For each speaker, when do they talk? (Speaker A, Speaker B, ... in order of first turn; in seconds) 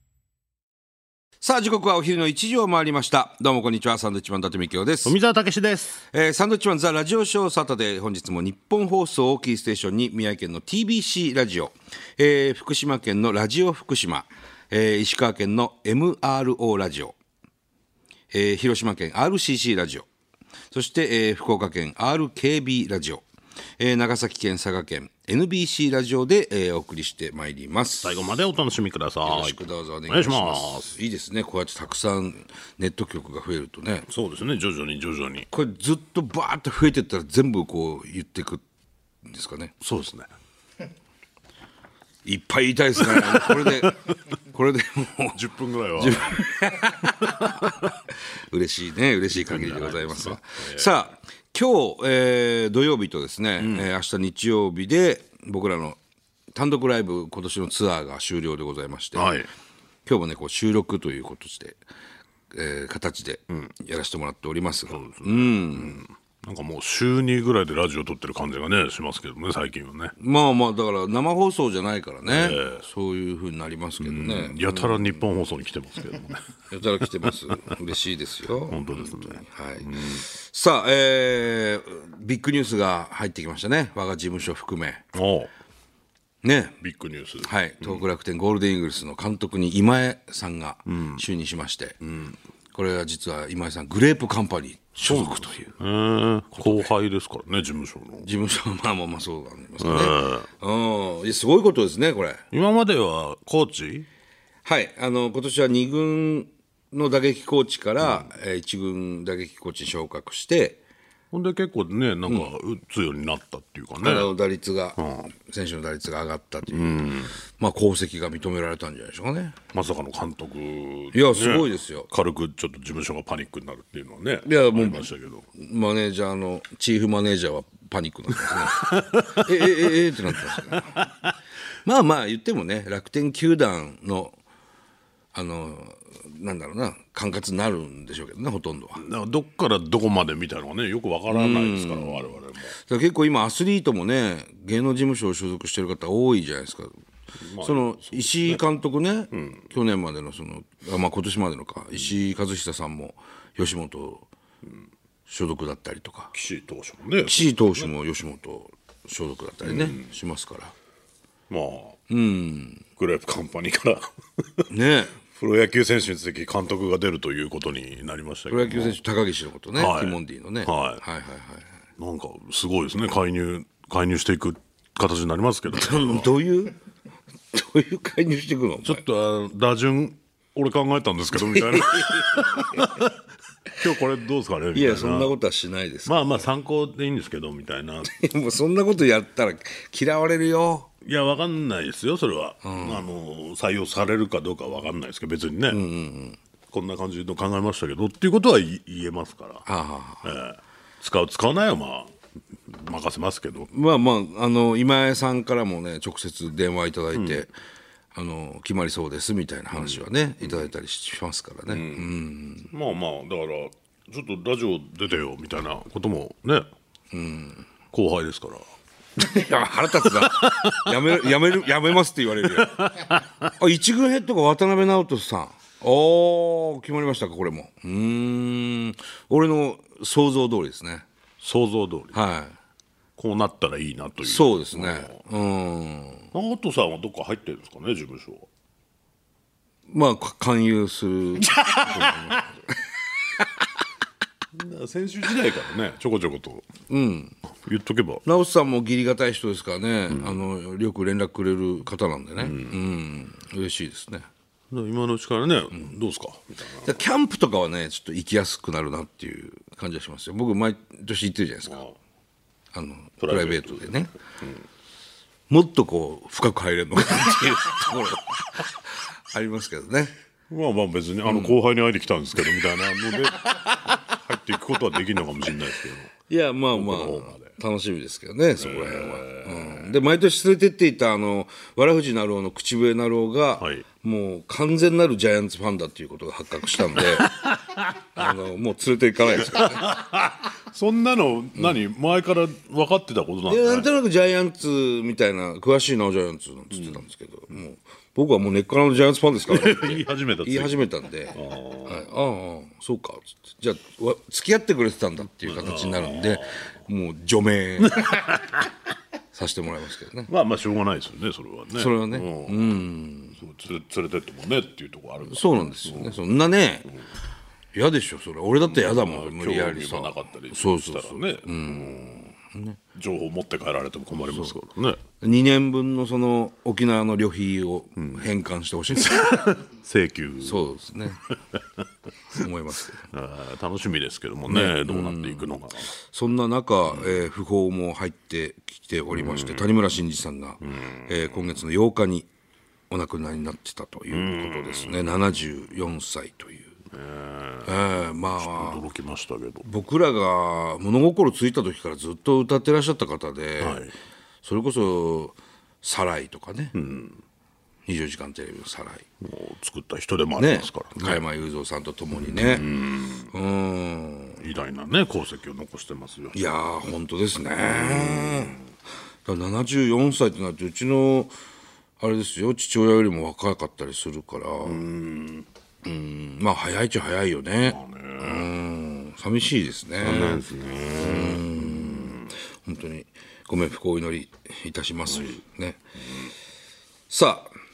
Speaker A: 1.4-5.2, 6.1-17.2, 18.3-20.1, 20.7-23.2, 23.8-28.2, 29.2-34.1, 35.5-38.6, 39.3-39.7, 42.2-45.4, 46.0-47.6, 48.5-56.0, 56.5-59.4, 60.0-61.8, 62.5-66.0, 70.2-75.2, 76.7-85.0, 86.4-86.8, 87.4-92.0, 92.7-95.8, 96.6-96.9, 98.2-102.4, 104.7-110.8, 114.0-119.6, 121.1-122.1, 124.5-131.0, 131.8-134.4, 135.3-139.0, 141.3-146.9, 147.6-154.3, 155.3-156.3, 157.2-160.7, 162.1-162.8, 164.7-165.2, 168.5-171.8, 175.7-176.8, 177.5-179.0, 181.3-182.9, 184.7-186.4, 188.1-190.9, 192.6-193.0, 195.7-196.4, 199.7-200.3, 203.7-207.5, 208.1-212.7, 217.1-217.7, 219.2-231.1, 232.1-232.6, 234.2-236.3, 239.9-242.5, 246.9-247.4, 248.2-254.3, 256.8-261.8, 262.7-264.1, 265.5-270.1, 271.3-271.5, 276.3-287.4, 288.1-289.8, 293.5-308.2, 309.3-310.3, 311.7-313.4, 315.3-316.9, 317.7-322.8, 324.3-324.6, 325.2-329.4, 330.4-331.2, 332.4-333.1, 334.5-335.5, 336.1-342.3, 342.9-346.7, 347.6-348.9, 349.6-353.9, 354.4-356.7, 357.9-359.1, 360.4-362.7, 363.3-364.4, 366.3-368.6, 369.2-371.3, 372.0-374.8, 375.8-380.5, 381.0-385.8, 387.1-387.5
Speaker B: 5.0-6.0, 28.0-30.9, 34.1-35.5, 39.8-40.3, 43.1-43.9, 45.3-46.4, 47.2-47.9, 49.3-50.9, 53.6-53.8, 59.2-59.5, 64.9-70.1, 72.3-72.8, 74.0-76.4, 78.7-80.2, 85.1-85.5, 86.8-88.0, 90.9-91.2, 92.0-92.4, 95.1-98.3, 99.8-100.5, 102.5-104.1, 111.3-114.3, 115.0-115.3, 116.7-117.4, 119.7-125.5, 128.5-129.8, 139.0-142.7, 147.5-148.6, 149.3-149.7, 156.3-157.9, 159.6-160.1, 161.5-162.0, 163.0-164.7, 165.2-169.0, 169.8-171.0, 172.0-176.3, 178.8-183.1, 183.7-185.3, 186.1-188.1, 191.1-195.8, 196.7-199.7, 200.2-202.1, 202.7-203.7, 207.2-207.4, 209.7-210.7, 211.7-212.1, 212.7-216.7, 217.9-218.7, 220.1-220.9, 222.6-223.4, 231.4-232.2, 233.2-235.1, 236.3-238.5, 241.5-242.3, 244.5-246.7, 247.7-248.2, 252.4-252.7, 254.7-256.9, 261.7-261.9, 263.2-264.6, 270.5-276.1, 276.7-277.5, 278.6-279.9, 283.6-283.8, 287.2-287.8, 289.5-293.9, 299.5-300.8, 301.3-302.1, 305.5-306.6, 307.9-308.7, 310.3-312.8, 313.4-316.2, 318.6-322.2, 322.9-325.0, 329.0-330.7, 333.1-335.9, 336.9-337.2, 339.1-339.6, 340.6-341.5, 344.1-345.2, 346.9-349.7, 353.6-353.9, 356.7-357.2, 359.2-361.2, 362.2-363.3, 364.4-366.4, 367.6-368.6, 374.6-375.5, 377.6-378.5, 380.0-382.3